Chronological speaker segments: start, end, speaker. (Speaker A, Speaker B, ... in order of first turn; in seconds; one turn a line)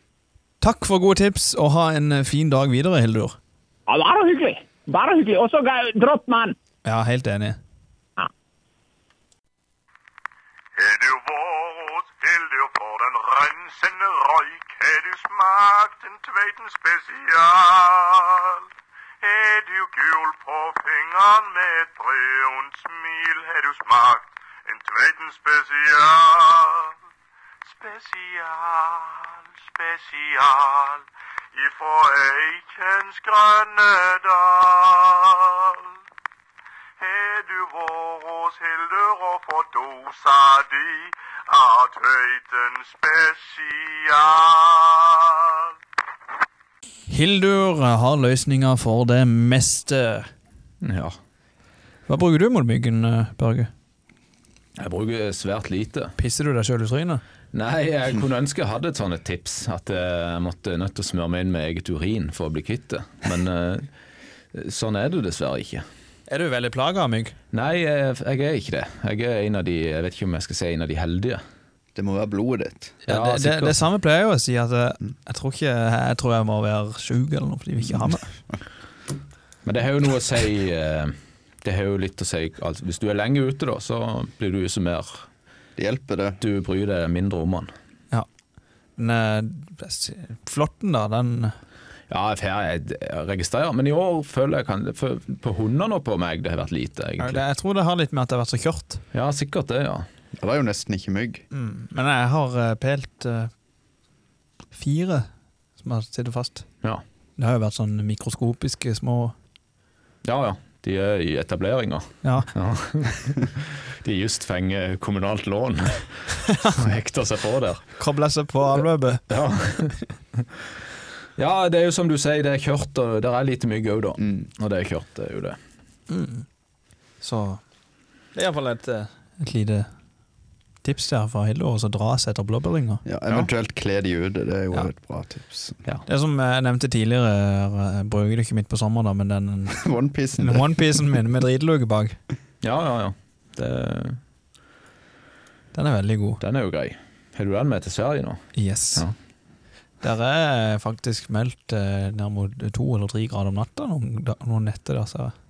Speaker A: 0.6-3.4
Speaker B: 3.9-6.6
Speaker A: 6.8-7.6
Speaker C: 10.8-18.6
Speaker C: 19.2-26.9
Speaker C: 27.7-35.9
Speaker C: 37.0-45.6
Speaker A: 47.1-50.3
Speaker D: 50.8-51.2
Speaker A: 52.1-53.7
Speaker D: 54.8-56.2
Speaker A: 56.2-57.2
Speaker D: 57.5-63.9
Speaker D: 64.5-65.8
Speaker A: 66.3-67.3
Speaker D: 67.5-71.4
Speaker E: 72.0-73.0
Speaker A: 73.1-78.3
Speaker D: 73.1-73.8
Speaker D: 79.7-85.3
Speaker E: 85.8-86.4
Speaker D: 86.4-87.7
Speaker A: 89.0-91.6
Speaker D: 92.1-97.4
Speaker A: 97.2-99.0
Speaker D: 99.1-100.1
Speaker E: 100.4-101.4
Speaker A: 101.5-103.5
Speaker A: 104.7-105.3
Speaker A: 105.8-106.7
Speaker A: 107.4-109.3
Speaker D: 110.2-117.9
Speaker A: 112.2-112.5
Speaker A: 118.0-119.2
Speaker D: 119.3-120.0
Speaker D: 121.4-125.6
Speaker E: 124.2-124.5
Speaker A: 126.1-126.5
Speaker A: 127.2-127.6
Speaker A: 128.3-129.9
Speaker A: 130.8-133.0
Speaker E: 133.1-135.8
Speaker A: 136.1-139.8
Speaker E: 139.7-141.0
Speaker A: 140.4-142.2
Speaker D: 142.6-144.2
Speaker A: 145.7-146.4
Speaker D: 146.4-149.1
Speaker A: 148.6-149.1
Speaker A: 150.0-155.3